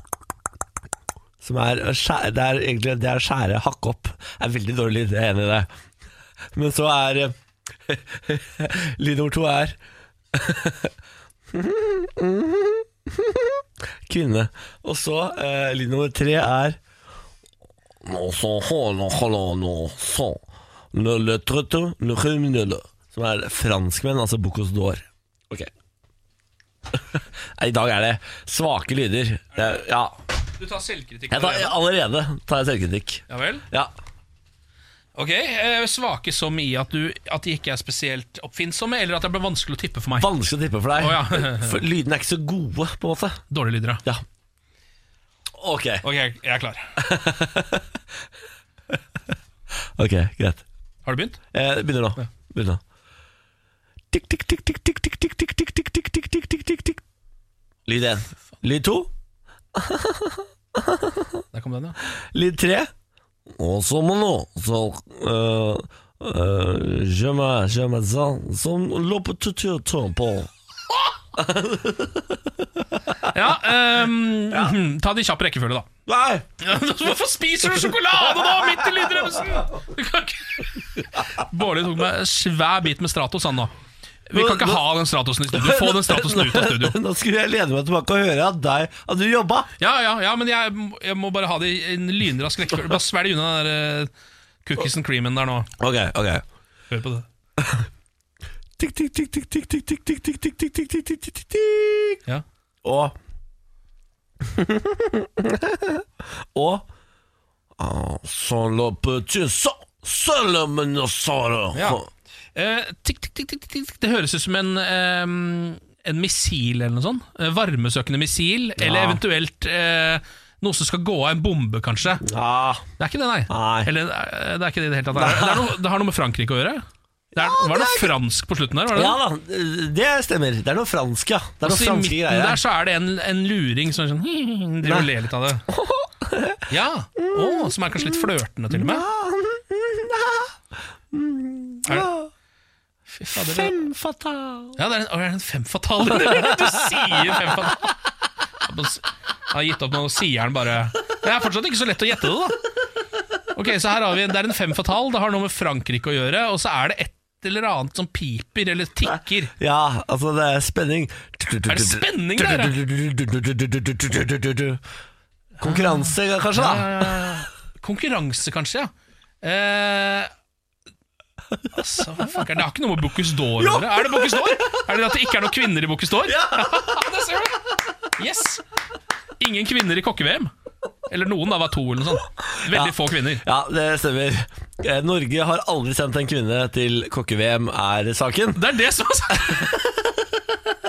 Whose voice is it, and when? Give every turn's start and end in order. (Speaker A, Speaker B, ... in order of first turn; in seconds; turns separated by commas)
Speaker A: 1.4-5.7, Speaker A: 6.5-7.3, Speaker A: 7.9-9.8, Speaker A: 10.3-10.9, Speaker A: 11.5-16.8, Speaker A: 18.0-20.4, Speaker A: 20.9-25.7, Speaker A: 26.9-30.2, Speaker B: 30.6-31.8, Speaker A: 31.3-33.9, Speaker B: 33.3-33.6, Speaker B: 35.2-40.3, Speaker A: 40.2-43.4, Speaker B: 41.0-41.8, Speaker B: 43.5-44.0, Speaker A: 45.6-46.0, Speaker B: 46.0-47.0, Speaker A: 47.0-47.9, Speaker A: 50.0-50.6, Speaker B: 51.1-51.4, Speaker A: 51.5-52.8, Speaker A: 54.1-57.0, Speaker A: 57.9-59.1, Speaker A: 59.8-61.4, Speaker B: 61.5-62.0, Speaker A: 62.2-62.9, Speaker A: 63.5-70.5, Speaker A: 71.3-73.2, Speaker B: 73.3-75.9, Speaker A: 74.5-74.8, Speaker A: 76.1-76.5, Speaker B: 76.6-83.7, Speaker A: 77.8-79.4, Speaker B: 84.3-87.0, Speaker A: 84.3-84.8, Speaker A: 85.5-89.7, Speaker B: 89.8-94.1, Speaker B: 94.7-95.7, Speaker A: 95.8-96.4, Speaker B: 96.9-97.3, Speaker A: 97.6-97.9, Speaker A: 98.8-102.2, Speaker A: 102.8-103.2, Speaker A: 104.4-106.9, Speaker A: 107.8-112.1, Speaker B: 111.7-112.0, Speaker B: 112.5-122.3, Speaker A: 118.8-119.2, Speaker A: 122.2-122.9, Speaker B: 123.0-126.8, Speaker A: 123.5-123.9, Speaker A: 125.1-125.7, Speaker A: 127.3-128.1, Speaker B: 127.3-129.2, Speaker A: 128.9-132.6, Speaker B: 131.6-135.6, Speaker A: 134.8-135.1, Speaker A: 135.7-136.7, Speaker B: 136.7-139.1, Speaker A: 137.2-140.5, Speaker A: 141.1-142.3, Speaker B: 143.1-143.8, Speaker A: 143.3-144.8, Speaker B: 144.8-147.9, Speaker A: 146.2-146.6, Speaker B: 148.6-152.6, Speaker B: 153.5-159.5, Speaker A: 159.6-164.8, Speaker B: 161.7-162.8, Speaker A: 165.6-167.3, Speaker B: 165.6-168.9, Speaker B: 169.4-170.3, Speaker B: 171.8-178.6, Speaker A: 173.6-175.2, Speaker A: 176.2-177.2, Speaker B: 179.4-180.5, Speaker B: 181.1-183.4, Speaker A: 182.6-188.7, Speaker B: 188.6-189.7, Speaker A: 189.3-190.4